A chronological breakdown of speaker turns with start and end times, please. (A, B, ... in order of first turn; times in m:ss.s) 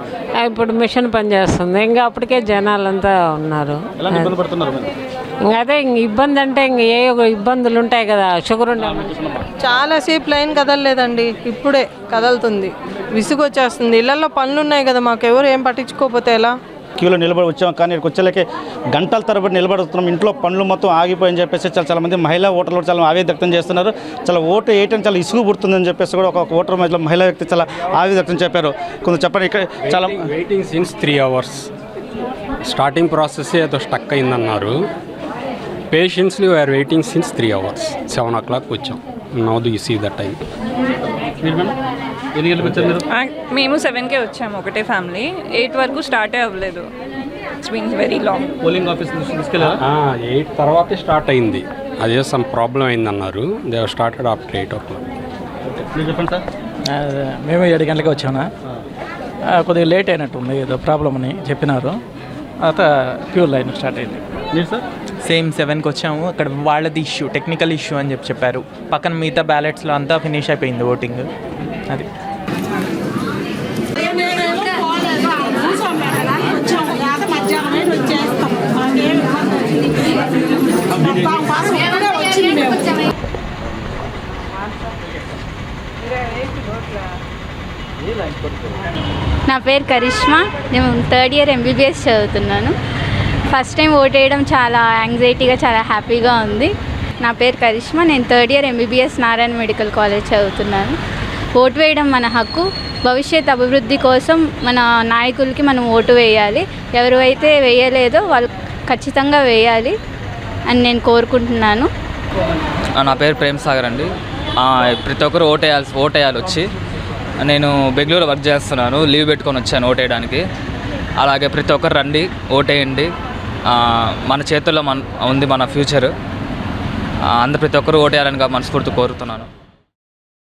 0:00.4-0:04.3 A
0:04.0-0:04.9 B
0:05.4-0:09.1 A
0:08.8-0:09.4 B
0:09.6-0:16.5 C
0:17.0-0:30.2 B
0:29.9-0:31.7 D
0:32.7-0:34.8 D
0:35.9-0:40.4 D
0:41.4-0:41.8 B
0:42.4-0:43.0 B
0:43.1-0:46.9 E
0:47.6-0:48.5 E
0:48.6-0:49.8 B
0:49.8-0:55.0 D
0:55.6-0:56.4 B
0:56.9-0:58.5 F
0:59.5-1:02.0 F
1:02.6-1:04.2 F
1:04.5-1:04.8 B
1:05.2-1:11.3 G
1:29.5-1:32.8 H
1:33.5-1:41.0 H
1:41.6-1:50.0 H
1:50.7-1:51.9 H
1:53.0-1:54.1 I
1:54.6-1:56.6 I
1:57.4-2:00.4 I
2:01.2-2:03.1 I
2:03.7-2:06.1 I
2:07.4-2:09.5 I